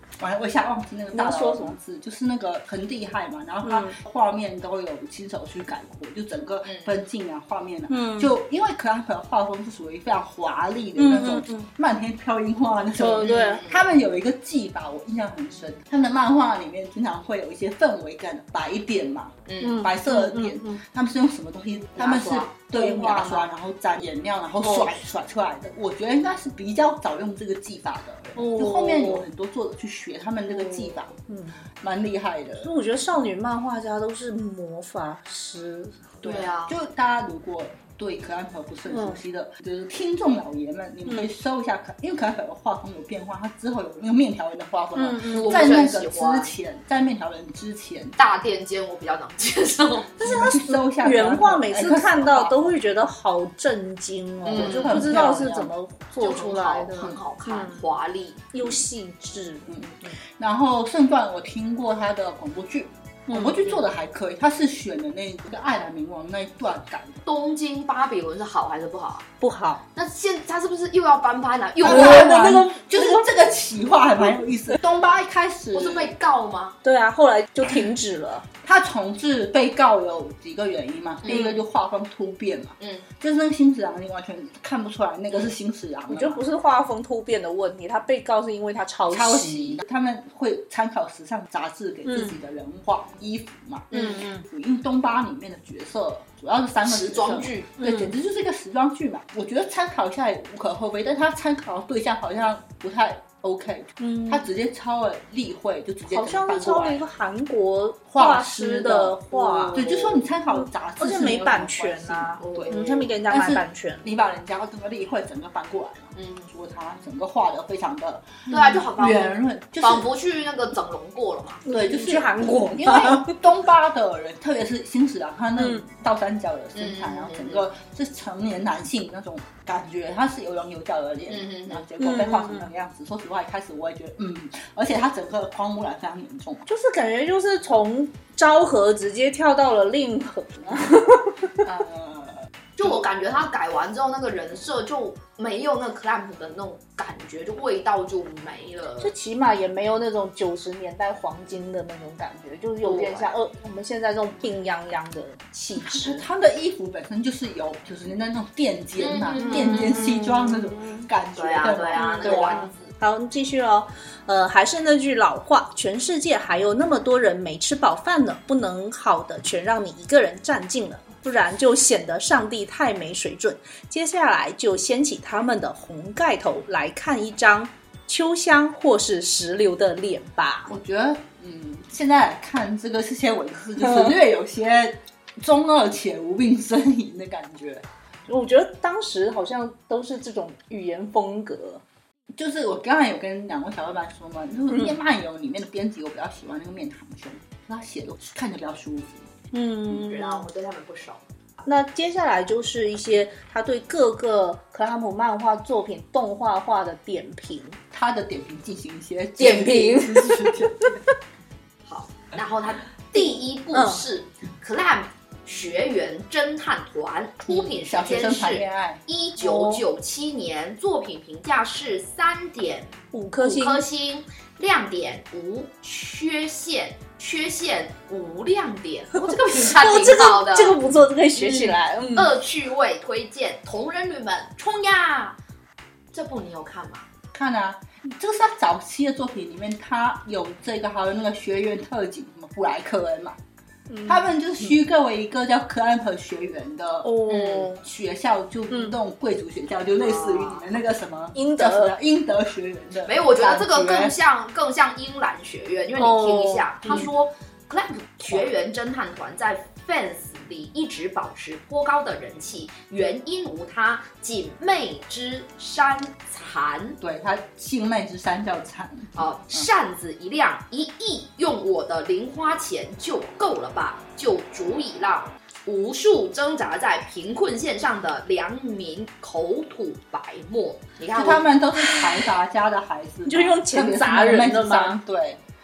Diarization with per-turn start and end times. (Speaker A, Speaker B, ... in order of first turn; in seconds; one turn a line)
Speaker A: 0.2-31.1
Speaker B: 1.1-1.8
Speaker B: 3.6-4.0
Speaker C: 6.7-6.9
Speaker B: 7.9-8.3
Speaker B: 11.0-11.7
Speaker B: 13.0-13.6
Speaker C: 13.2-13.8
Speaker C: 19.5-19.8
Speaker B: 19.6-20.8
Speaker C: 21.9-23.2
Speaker B: 22.7-23.4
Speaker B: 24.6-24.9
Speaker B: 28.4-29.2
Speaker B: 31.3-31.6
Speaker A: 31.8-32.7
Speaker B: 32.6-36.1
Speaker C: 36.2-36.8
Speaker A: 36.2-48.2
Speaker B: 38.9-39.2
Speaker B: 44.9-45.8
Speaker C: 45.3-46.5
Speaker C: 48.2-50.1
Speaker A: 50.2-52.7
Speaker B: 50.2-57.8
Speaker C: 54.5-55.1
Speaker A: 54.5-55.7
Speaker C: 56.2-58.5
Speaker B: 58.5-60.1
Speaker A: 59.7-67.2
Speaker B: 63.3-63.6
Speaker C: 67.2-69.3
Speaker B: 69.4-69.8
Speaker C: 69.9-72.6
Speaker A: 71.8-76.1
Speaker B: 71.8-73.2
Speaker C: 75.7-76.8
Speaker B: 76.8-78.5
Speaker A: 78.6-86.4
Speaker C: 81.2-81.5
Speaker C: 82.8-83.0
Speaker B: 86.1-89.8
Speaker A: 89.1-107.0
Speaker B: 92.0-92.3
Speaker B: 93.9-94.4
Speaker C: 93.9-94.2
Speaker C: 96.8-97.7
Speaker B: 97.8-98.1
Speaker B: 104.0-104.4
Speaker B: 106.1-109.9
Speaker A: 108.1-112.7
Speaker C: 109.4-110.2
Speaker B: 110.5-114.1
Speaker C: 112.4-113.1
Speaker A: 113.3-120.1
Speaker C: 116.2-116.5
Speaker C: 118.5-121.7
Speaker B: 121.6-123.4
Speaker A: 121.7-136.7
Speaker B: 125.6-125.8
Speaker C: 126.7-127.6
Speaker C: 131.3-131.8
Speaker B: 132.0-132.7
Speaker B: 136.7-141.6
Speaker A: 141.6-142.4
Speaker C: 142.8-149.1
Speaker B: 149.0-156.2
Speaker C: 152.8-153.3
Speaker A: 155.8-162.6
Speaker C: 159.0-160.0
Speaker B: 159.3-161.0
Speaker C: 161.3-162.9
Speaker B: 162.0-180.7
Speaker A: 180.7-187.8
Speaker B: 188.3-191.8
Speaker A: 192.3-199.2
Speaker B: 199.5-200.4
Speaker C: 199.9-201.2
Speaker B: 201.7-207.8
Speaker A: 207.9-211.0
Speaker B: 209.4-211.0
Speaker C: 211.8-230.8
Speaker B: 213.2-214.0
Speaker A: 217.4-219.0
Speaker B: 219.4-219.8
Speaker B: 223.1-223.8
Speaker B: 229.2-232.3
Speaker C: 231.4-235.4
Speaker C: 236.1-237.1
Speaker A: 237.3-243.4
Speaker B: 243.9-244.3
Speaker A: 244.1-247.2
Speaker B: 247.0-247.8
Speaker C: 247.3-247.7
Speaker A: 247.7-254.1
Speaker B: 248.7-248.9
Speaker C: 250.0-250.7
Speaker B: 251.3-251.9
Speaker C: 253.0-267.0
Speaker B: 256.0-257.1
Speaker A: 267.0-269.7
Speaker C: 269.1-281.5
Speaker A: 281.1-285.4
Speaker B: 283.2-285.0